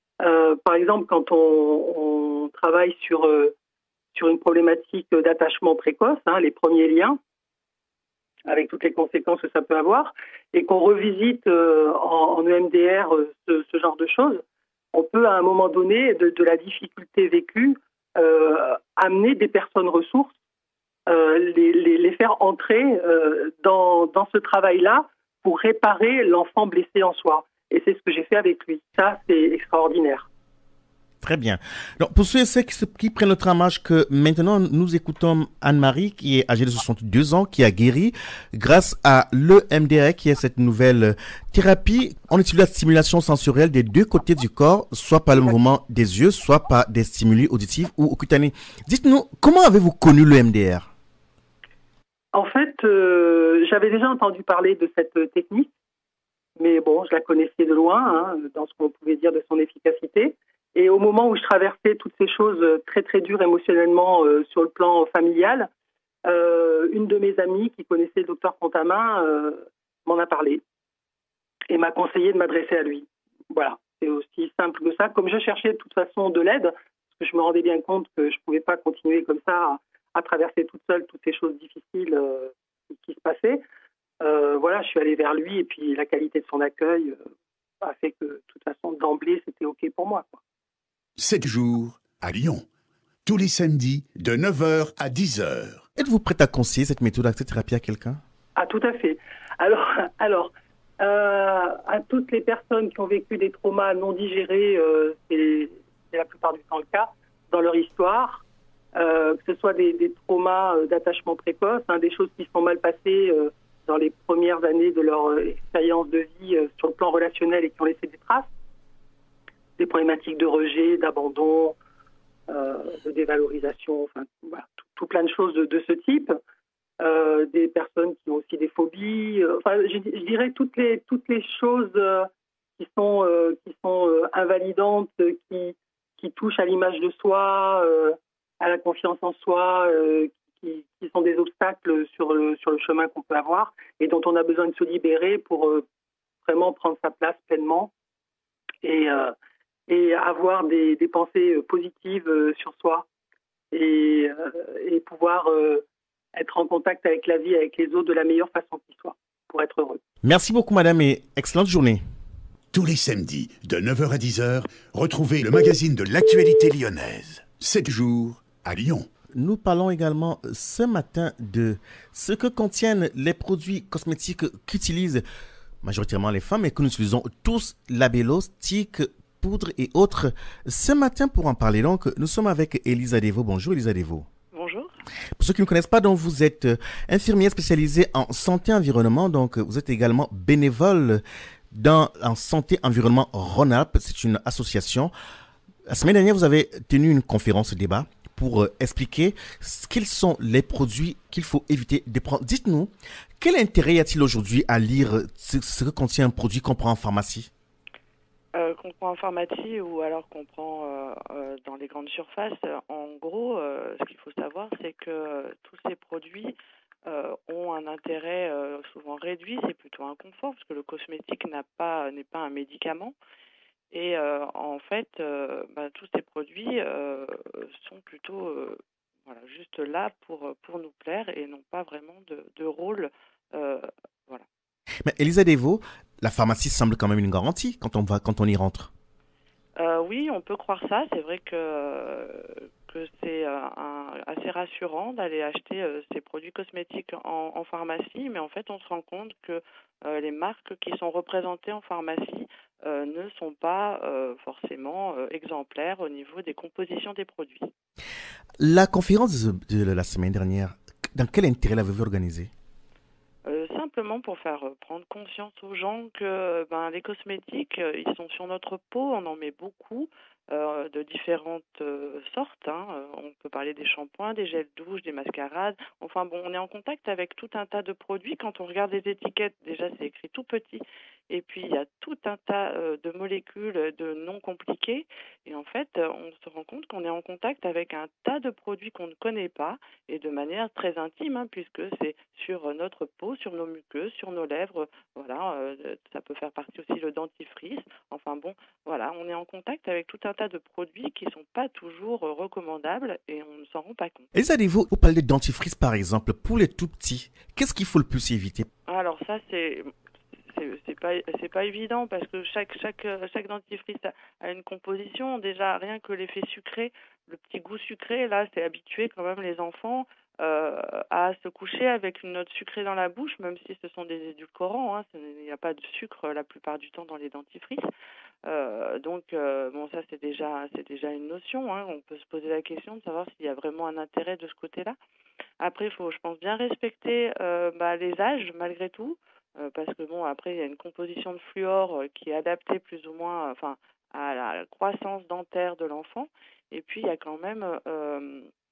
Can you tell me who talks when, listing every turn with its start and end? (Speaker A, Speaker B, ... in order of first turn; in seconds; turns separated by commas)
Speaker A: 0.2-3.5, Speaker A: 4.1-7.2, Speaker A: 8.4-14.4, Speaker A: 14.9-20.3, Speaker A: 21.1-30.3, Speaker B: 31.2-50.9, Speaker A: 52.3-55.7, Speaker A: 56.6-65.7, Speaker A: 66.2-70.6, Speaker A: 71.7-83.6, Speaker A: 84.2-87.2, Speaker A: 87.8-90.3, Speaker C: 91.2-92.7, Speaker C: 93.2-95.9, Speaker B: 96.0-98.2, Speaker A: 98.5-108.4, Speaker A: 108.9-118.5, Speaker A: 119.8-121.8, Speaker A: 122.5-126.4, Speaker A: 127.0-145.8, Speaker A: 146.4-147.9, Speaker A: 148.8-149.3, Speaker A: 149.9-153.1, Speaker A: 153.7-155.8, Speaker A: 156.3-160.0, Speaker B: 160.2-162.0, Speaker C: 162.7-169.1, Speaker B: 169.3-175.2, Speaker B: 175.8-184.3, Speaker D: 184.5-184.9, Speaker B: 185.4-195.1, Speaker B: 195.9-207.5, Speaker D: 208.5-216.5, Speaker D: 217.1-223.1, Speaker D: 223.9-234.4, Speaker B: 235.1-238.9, Speaker D: 239.8-257.7, Speaker B: 258.6-262.5, Speaker D: 263.4-304.3, Speaker B: 304.3-308.7, Speaker D: 308.9-309.9, Speaker D: 310.5-327.8, Speaker D: 328.4-334.9, Speaker D: 335.6-348.5